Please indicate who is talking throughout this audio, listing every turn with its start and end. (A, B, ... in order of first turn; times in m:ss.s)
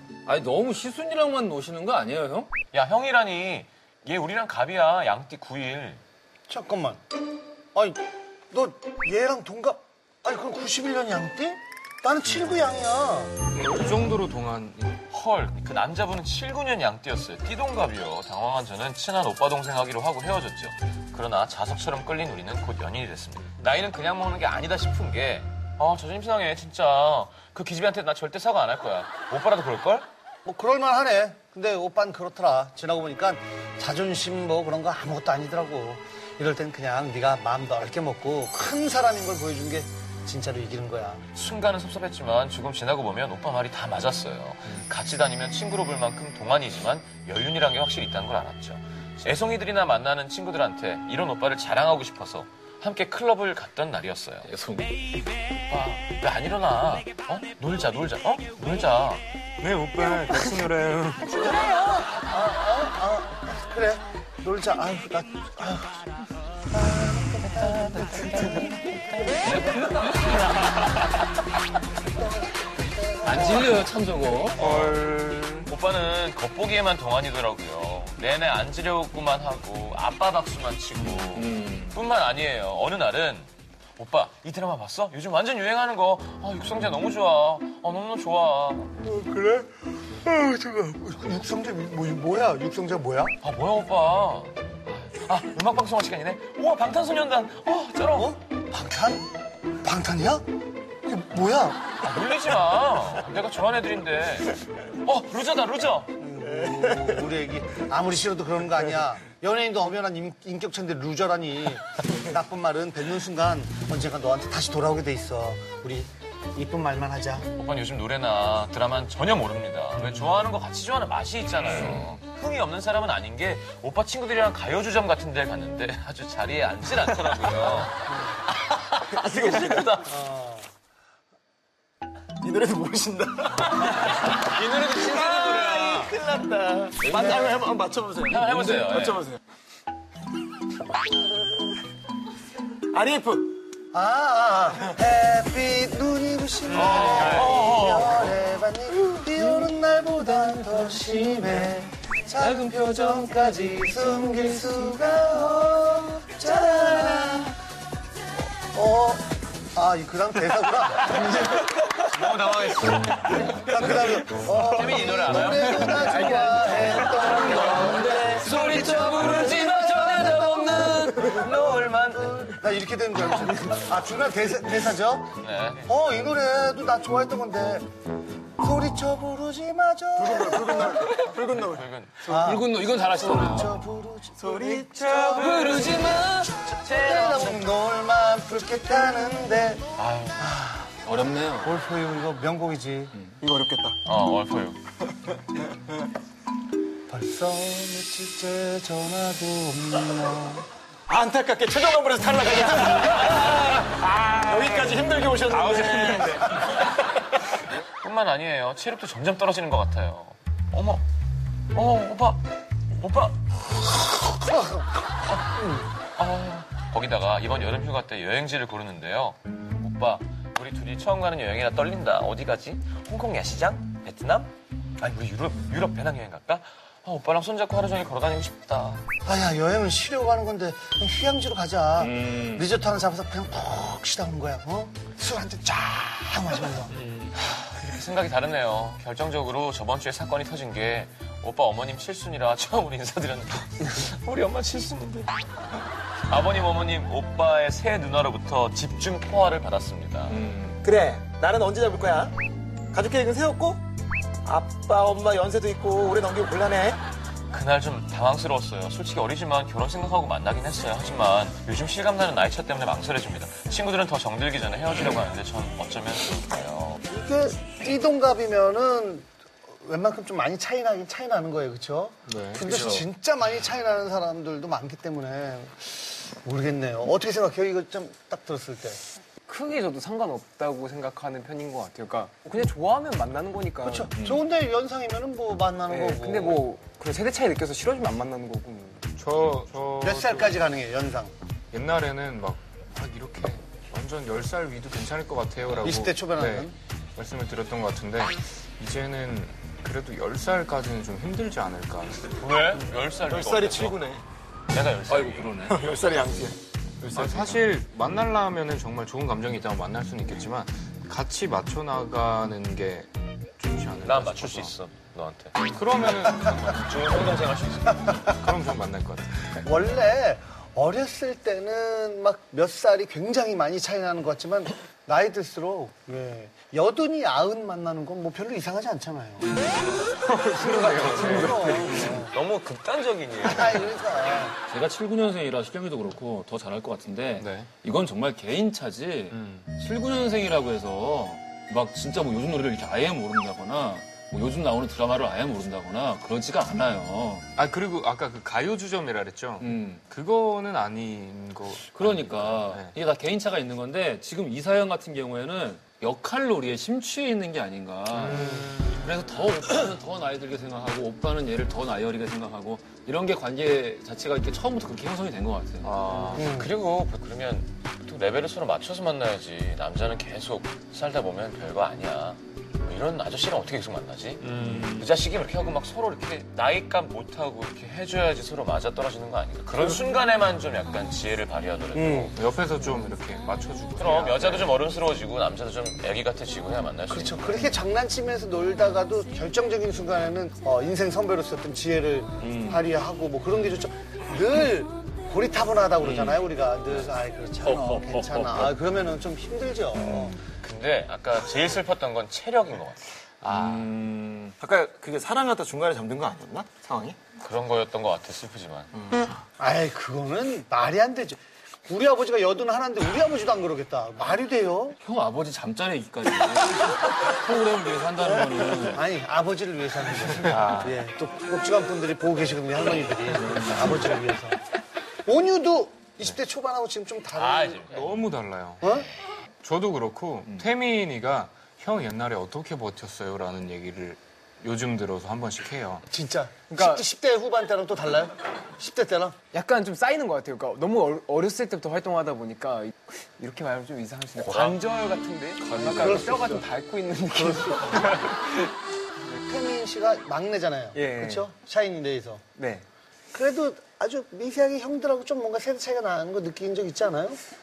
0:00.2-0:02.5 A
0:02.7-0:06.0 B
0:06.5-0:07.0 C
0:07.7-0:13.4 C
0:13.7-0:15.0 D
0:15.1-0:30.0 B
0:30.4-0:41.2 C
0:41.3-0:54.5 B
0:54.4-0:55.0 A
0:55.7-0:59.2 B
0:59.6-1:01.4 D
1:01.3-1:06.1 C
1:06.7-1:09.6 C
1:12.2-1:13.8 C
1:13.2-1:15.6 A
1:14.6-1:29.0 B
1:21.2-1:22.0 A
1:29.0-1:33.3 C
1:33.4-1:38.4 B
1:38.1-1:39.3 C
1:39.8-1:40.4 C
1:41.0-1:41.9 C
1:42.0-1:46.1 B
1:46.2-1:57.5 C
1:57.6-2:10.1 B
2:09.2-2:09.8 E
2:10.0-2:10.7 C
2:12.4-2:19.4 E
2:13.8-2:16.2 B
2:17.0-2:17.6 A
2:18.3-2:19.3 B
2:22.9-2:23.7 E
2:23.9-2:37.6 C
2:26.7-2:28.3 B
2:26.9-2:27.5 E
2:38.6-2:41.5 C
2:42.0-2:43.7 B
2:43.5-2:55.3 C
2:44.6-2:50.4 B
2:47.3-2:51.1 A
2:51.0-2:52.4 B
2:51.1-2:51.4 E
2:55.4-2:55.9 B
2:55.8-2:57.9 C
2:58.6-3:01.0 C
3:00.2-3:01.9 E
3:01.3-3:02.3 B
3:02.2-3:09.8 C
3:02.3-3:03.8 A
3:04.4-3:06.1 E
3:05.3-3:06.9 A
3:06.9-3:07.5 B
3:10.0-3:10.4 B
3:10.4-3:11.0 C
3:11.0-3:11.8 A
3:11.6-3:13.2 C
3:13.4-3:14.0 E
3:14.0-3:14.8 B
3:17.1-3:20.6 C
3:21.1-3:26.8 E
3:27.8-3:31.0 B
3:31.7-3:32.4 B
3:33.0-3:33.4 B
3:34.3-3:35.9 C
3:36.2-3:49.0 B
3:49.2-3:57.0 C
3:52.0-3:52.6 A
3:57.5-4:05.3 B
4:06.3-4:10.4 B
4:10.3-4:10.8 A
4:10.8-4:12.4 E
4:12.9-4:13.8 E
4:14.4-4:17.0 E
4:17.5-4:27.0 B
4:27.0-4:39.0 C
4:32.3-4:33.1 D
4:39.5-4:44.1 F
4:43.8-4:46.6 C
4:44.2-4:44.4 A
4:45.9-4:49.0 F
4:49.2-4:50.6 D
4:50.0-4:51.3 C
4:51.7-5:02.3 D
4:55.8-4:56.7 C
5:02.4-5:04.0 B
5:03.2-5:04.2 E
5:04.7-5:05.6 B
5:05.1-5:05.8 A
5:05.6-5:07.6 E
5:07.1-5:14.7 D
5:14.0-5:15.5 B
5:15.7-5:16.9 D
5:16.5-5:18.3 B
5:18.2-5:19.5 D
5:19.5-5:29.6 C
5:30.2-5:34.4 B
5:30.8-5:32.3 C
5:30.9-5:31.6 F
5:31.0-5:31.4 D
5:33.4-5:34.6 C
5:34.7-5:47.4 A
5:37.4-5:37.7 D
5:39.3-5:39.6 D
5:47.6-5:52.9 D
5:49.6-5:50.0 A
5:51.9-6:06.4 A
5:58.2-5:59.1 D
6:05.8-6:06.6 D
6:06.3-6:22.4 B
6:06.4-6:06.7 C
6:14.5-6:15.0 D
6:21.9-6:22.3 C
6:22.3-6:24.7 D
6:24.0-6:27.6 B
6:27.1-6:40.4 C
6:32.4-6:32.8 A
6:36.0-6:36.5 A
6:39.9-6:40.4 A
6:40.5-6:43.0 B
6:43.4-6:44.5 A
6:44.6-6:47.2 E
6:47.4-6:48.9 B
6:49.6-6:55.0 C
6:55.0-6:59.0 A
6:58.2-7:04.6 C
7:00.4-7:00.9 D
7:00.4-7:00.9 A
7:03.4-7:04.1 A
7:05.2-7:07.8 C
7:07.4-7:08.1 B
7:07.9-7:08.9 D
7:08.8-7:09.1 C
7:09.6-7:16.1 D
7:16.1-7:19.4 C
7:19.5-7:28.7 F
7:24.4-7:24.8 B
7:25.6-7:26.3 D
7:25.7-7:26.2 A
7:25.9-7:26.6 C
7:27.3-7:28.1 C
7:29.4-7:32.4 C
7:30.9-7:31.3 F
7:32.6-7:32.8 F
7:33.3-7:37.4 C